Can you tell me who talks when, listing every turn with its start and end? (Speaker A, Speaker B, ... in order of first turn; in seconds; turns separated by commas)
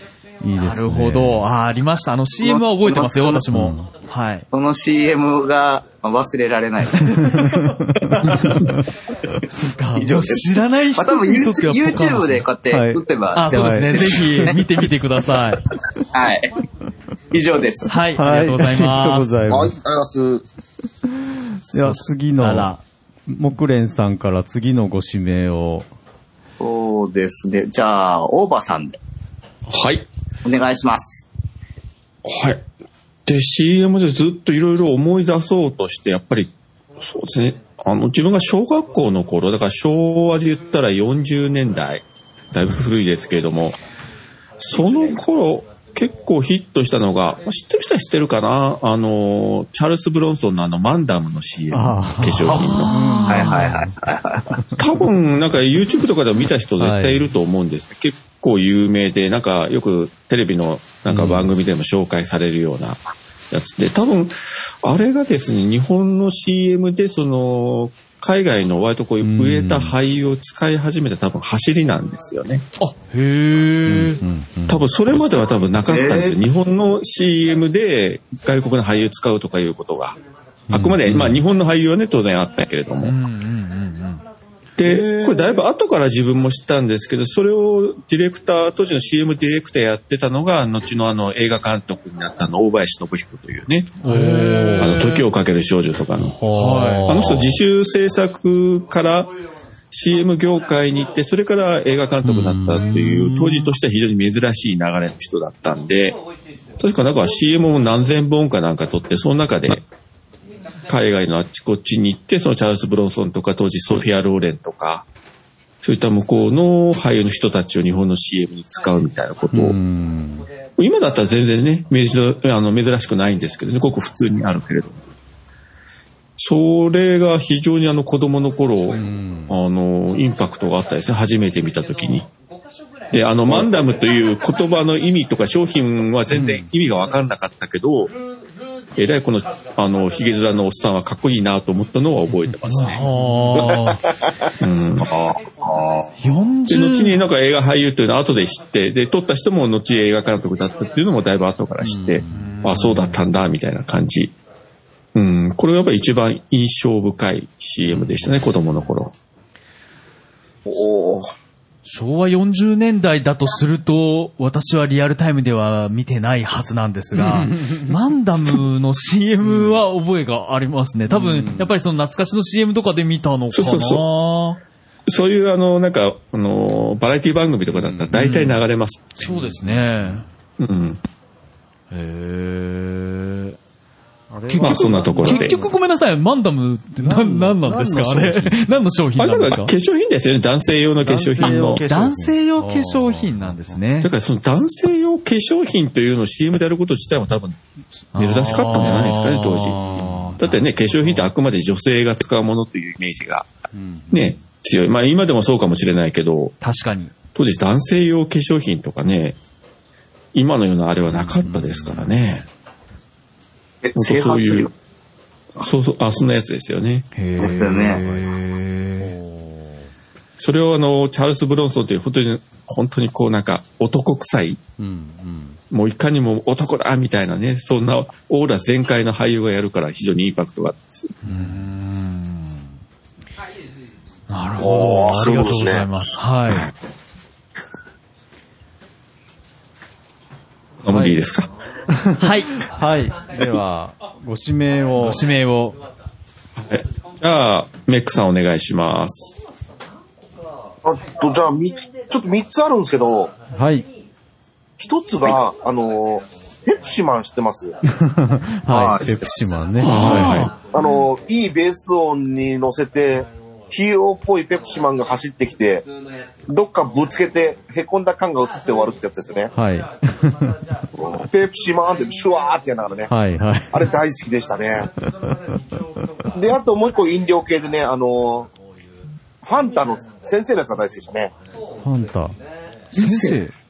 Speaker A: 0.4-1.5, Speaker B: 0.6-4.5, Speaker C: 2.4-3.5, Speaker A: 3.5-3.9, Speaker C: 4.5-7.2, Speaker B: 7.0-8.6, Speaker A: 7.3-8.5, Speaker B: 9.5-12.4, Speaker C: 9.9-14.6, Speaker A: 12.7-14.2, Speaker B: 13.3-15.6, Speaker C: 16.1-16.5, Speaker C: 17.3-17.9, Speaker B: 17.9-19.3, Speaker A: 18.2-19.7, Speaker D: 19.5-20.4, Speaker A: 21.7-22.7, Speaker B: 21.7-22.8, Speaker A: 23.3-25.9, Speaker C: 26.6-29.0, Speaker E: 29.7-30.1, Speaker C: 30.4-31.2, Speaker E: 32.2-32.6, Speaker E: 33.2-43.8, Speaker E: 44.6-52.9, Speaker C: 44.7-45.2, Speaker A: 51.7-53.9, Speaker B: 52.6-53.8, Speaker C: 53.3-54.6, Speaker E: 54.8-63.0, Speaker A: 56.8-57.3, Speaker A: 61.1-61.5, Speaker E: 63.5-72.6, Speaker A: 69.2-70.0, Speaker B: 72.8-74.2, Speaker A: 73.8-74.8, Speaker E: 74.7-80.2, Speaker C: 75.8-76.4, Speaker A: 80.7-81.4, Speaker E: 80.7-83.2, Speaker B: 83.0-84.2, Speaker E: 84.8-93.9, Speaker D: 84.8-85.6, Speaker A: 94.0-95.0, Speaker B: 94.0-95.2, Speaker E: 94.8-96.4, Speaker A: 96.2-97.6, Speaker B: 96.5-97.1, Speaker E: 97.0-99.3, Speaker E: 99.9-106.2, Speaker A: 102.2-103.3, Speaker B: 102.8-103.6, Speaker E: 106.8-109.8, Speaker E: 110.9-115.0, Speaker E: 115.8-119.8, Speaker A: 119.5-120.5, Speaker E: 120.8-125.0, Speaker E: 126.4-132.3, Speaker A: 128.9-129.6, Speaker E: 133.1-138.1, Speaker A: 136.3-136.6, Speaker E: 138.9-143.0, Speaker B: 142.7-144.0, Speaker A: 143.1-143.6, Speaker E: 144.6-145.1, Speaker C: 145.2-146.1, Speaker B: 146.2-147.2, Speaker E: 146.7-154.3, Speaker A: 151.8-152.5, Speaker B: 152.3-153.2, Speaker E: 155.1-159.1, Speaker D: 160.7-161.3, Speaker B: 161.8-174.6, Speaker A: 167.2-168.0, Speaker A: 171.1-171.7, Speaker E: 173.5-174.0, Speaker E: 175.1-179.2, Speaker A: 177.7-178.3, Speaker B: 178.1-178.6, Speaker B: 179.2-180.2, Speaker A: 179.6-180.1, Speaker E: 180.6-181.0, Speaker B: 181.9-183.6, Speaker A: 184.3-185.7, Speaker B: 184.5-189.7, Speaker E: 184.6-185.6, Speaker A: 187.0-188.6, Speaker E: 189.2-191.8, Speaker A: 191.0-193.8, Speaker B: 191.4-194.1, Speaker E: 194.0-197.6, Speaker B: 198.1-200.6, Speaker E: 198.1-199.9, Speaker A: 199.8-200.4, Speaker E: 200.4-203.5, Speaker A: 203.7-204.3, Speaker E: 204.1-206.5, Speaker B: 206.6-207.1, Speaker E: 207.3-209.4, Speaker E: 210.3-212.4, Speaker C: 213.8-214.7, Speaker E: 213.9-214.7, Speaker E: 215.6-217.1, Speaker B: 217.1-219.1, Speaker C: 217.4-218.0, Speaker A: 217.9-218.2, Speaker A: 219.0-219.9, Speaker E: 220.4-224.6, Speaker A: 224.8-225.6, Speaker E: 225.7-231.1, Speaker B: 231.2-232.7, Speaker B: 234.3-236.7, Speaker D: 234.6-235.8, Speaker E: 236.5-236.7, Speaker E: 240.8-241.5, Speaker A: 240.9-241.2, Speaker A: 241.9-245.2, Speaker B: 242.2-242.5, Speaker B: 245.0-245.8, Speaker E: 246.6-249.3, Speaker D: 250.8-253.3, Speaker A: 253.5-253.8, Speaker D: 254.8-257.8, Speaker A: 257.9-260.5, Speaker C: 258.7-259.5, Speaker E: 259.8-260.5, Speaker B: 260.0-260.5, Speaker D: 260.7-265.9, Speaker D: 266.5-269.5, Speaker A: 269.5-270.6, Speaker D: 271.0-273.1, Speaker A: 273.1-273.9, Speaker D: 273.7-274.9, Speaker D: 276.3-278.5, Speaker D: 279.4-281.3, Speaker A: 281.8-282.4, Speaker B: 282.9-283.5, Speaker C: 283.0-283.3, Speaker A: 283.1-283.3